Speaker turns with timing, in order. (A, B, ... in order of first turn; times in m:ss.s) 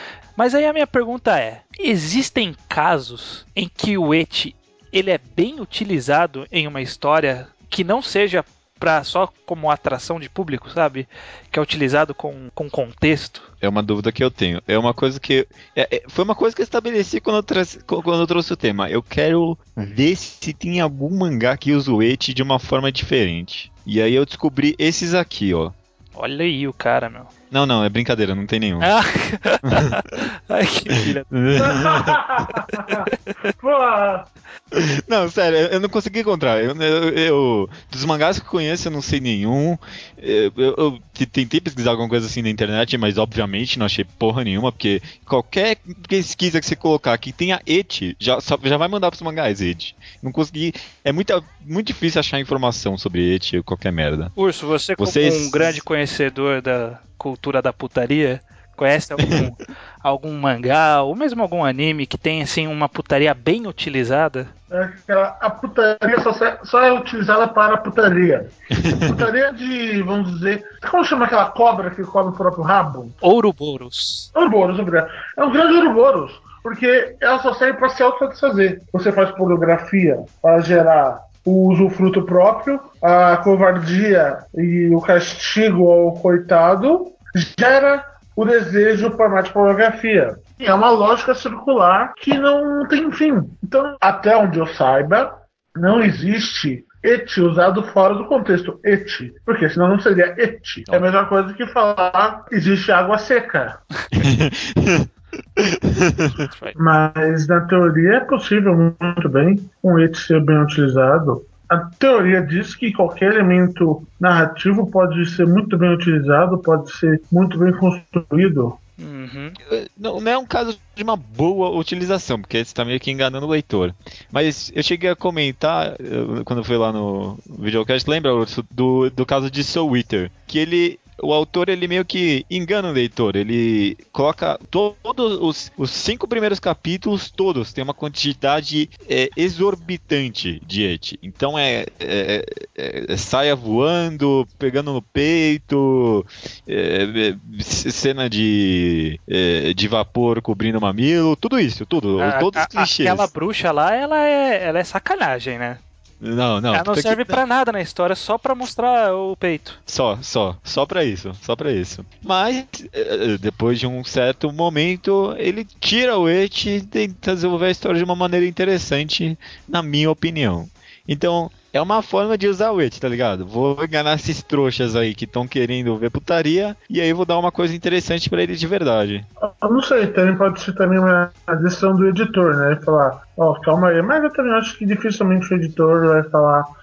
0:00.4-0:13.5 A
0:13.6-0:25.7 B
0:26.1-0:27.3 A
0:27.5-0:28.9 B
0:28.8-0:31.3 A
0:29.6-0:30.0 B
0:31.3-0:32.2 B
0:31.6-0:34.3 C
0:32.9-0:33.3 A
0:34.7-0:54.3 B
0:54.4-1:04.5 A
0:55.0-0:55.8 B
1:04.7-1:08.5 C
1:08.7-1:09.2 B
1:09.0-1:13.1 C
1:13.2-1:14.3 A
1:14.3-1:43.8 C
1:44.2-1:46.4 B
1:46.4-1:46.7 A
1:46.8-1:58.8 C
1:59.0-1:59.6 A
1:59.7-2:33.3 B
2:32.2-2:35.8 A
2:36.2-2:37.4 B
2:36.7-2:39.8 A
2:39.9-2:59.3 B
2:59.4-3:06.7 C